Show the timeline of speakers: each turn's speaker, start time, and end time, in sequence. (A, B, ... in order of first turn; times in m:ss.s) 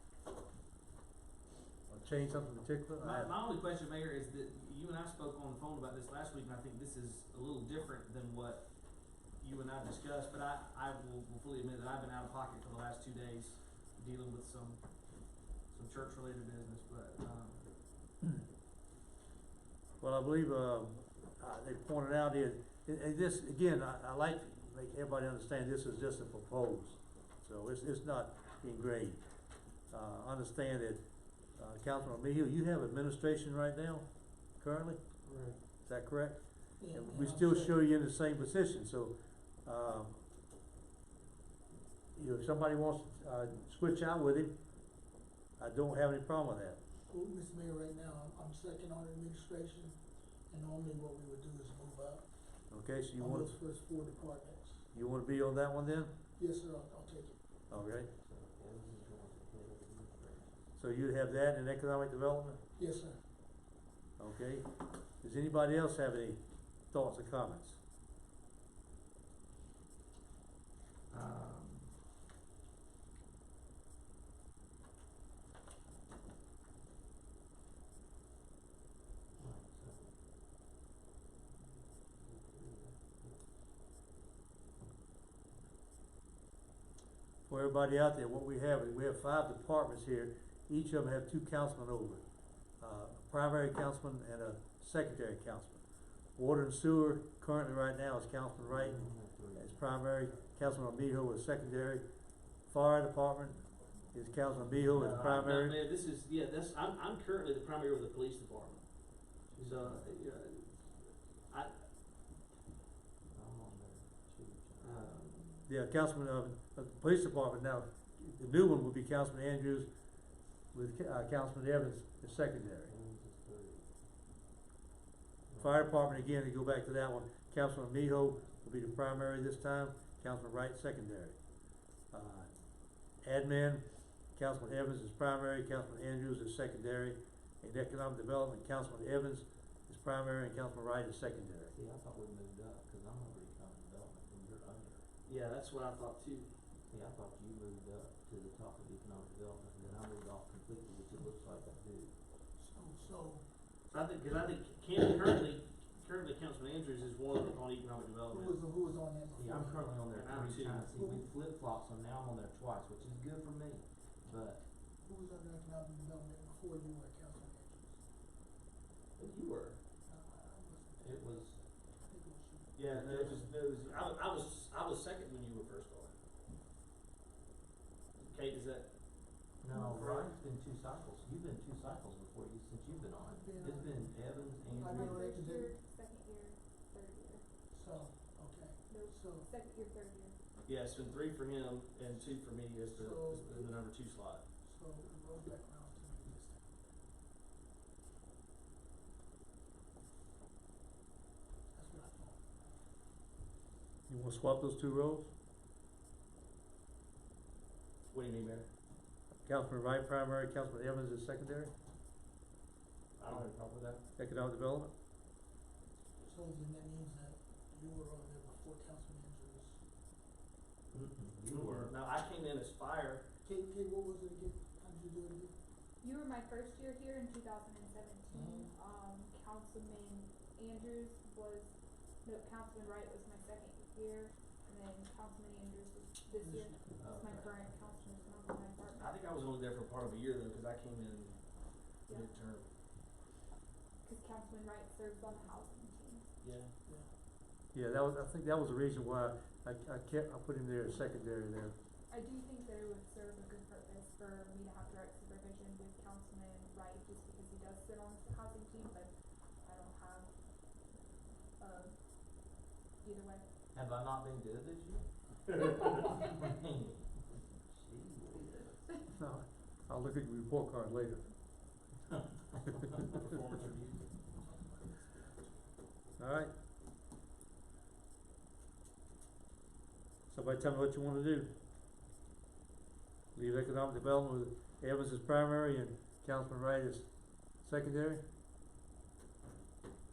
0:01.9-0:03.4 A
0:03.0-0:08.7 B
0:09.4-0:14.8 B
0:15.7-0:17.7 B
0:20.0-0:29.2 A
0:29.9-0:35.0 A
0:35.2-0:35.6 B
0:35.8-0:40.2 A
0:36.8-0:37.8 C
0:42.1-0:44.6 A
0:45.6-0:46.8 A
0:47.1-0:50.0 C
0:50.5-0:52.3 C
0:52.7-0:53.6 A
0:53.2-0:54.8 C
0:54.9-0:56.1 A
0:56.4-0:57.4 C
0:57.7-0:58.1 A
0:58.2-1:00.6 D
1:00.8-1:02.6 A
1:02.8-1:03.2 C
1:04.2-1:07.8 A
1:11.1-1:11.9 D
1:19.4-1:20.2 D
1:21.6-1:23.5 D
1:27.4-1:43.6 A
1:38.6-1:40.2 D
1:44.1-1:45.8 A
1:44.6-1:45.4 D
1:44.9-1:48.8 B
1:49.5-1:50.2 D
1:49.6-1:50.9 B
1:51.5-1:51.8 B
1:53.3-1:55.2 D
1:54.8-1:55.7 B
1:55.7-1:59.9 A
2:00.7-2:02.9 A
2:02.9-2:03.9 D
2:05.5-2:06.3 D
2:05.6-2:11.4 A
2:12.1-2:12.5 A
2:13.2-2:21.7 A
2:21.7-2:25.1 D
2:25.3-2:26.5 B
2:26.9-2:32.2 D
2:32.6-2:33.4 C
2:33.9-2:38.6 B
2:38.3-2:40.0 C
2:39.3-2:44.7 D
2:40.1-2:40.8 B
2:41.0-2:41.3 C
2:45.0-2:48.0 C
2:49.2-2:49.8 B
2:50.1-2:53.5 C
2:51.0-2:51.6 D
2:52.8-2:56.2 B
2:52.9-2:53.3 D
2:58.2-2:58.9 B
2:59.6-3:05.3 D
2:59.8-3:00.4 B
3:03.2-3:04.1 C
3:04.6-3:05.8 C
3:04.8-3:07.4 E
3:07.7-3:09.5 C
3:08.9-3:10.4 E
3:10.7-3:14.4 B
3:12.8-3:13.8 C
3:14.6-3:16.7 C
3:21.7-3:22.5 C
3:24.1-3:25.3 A
3:28.1-3:28.7 B
3:29.4-3:31.7 A
3:33.2-3:34.0 B
3:34.2-3:34.9 A
3:36.2-3:39.8 C
3:40.9-3:42.0 D
3:41.4-3:43.2 B
3:43.4-3:45.5 C
3:46.0-3:59.2 E
3:48.3-3:48.7 C
3:56.4-3:56.9 C
3:56.9-3:57.9 D
3:59.0-4:01.4 B
4:02.1-4:02.7 B
4:04.0-4:06.3 E
4:06.4-4:06.7 B
4:07.7-4:11.8 A
4:12.1-4:19.1 E
4:19.6-4:20.3 E
4:21.6-4:22.0 E
4:23.0-4:23.4 E
4:23.7-4:25.6 D
4:26.4-4:27.0 D
4:27.7-4:28.8 D
4:29.1-4:31.3 A
4:33.1-4:34.0 B
4:34.4-4:35.1 C
4:36.2-4:36.5 A
4:40.3-4:41.5 A
4:43.4-4:47.1 A
4:47.6-4:48.2 A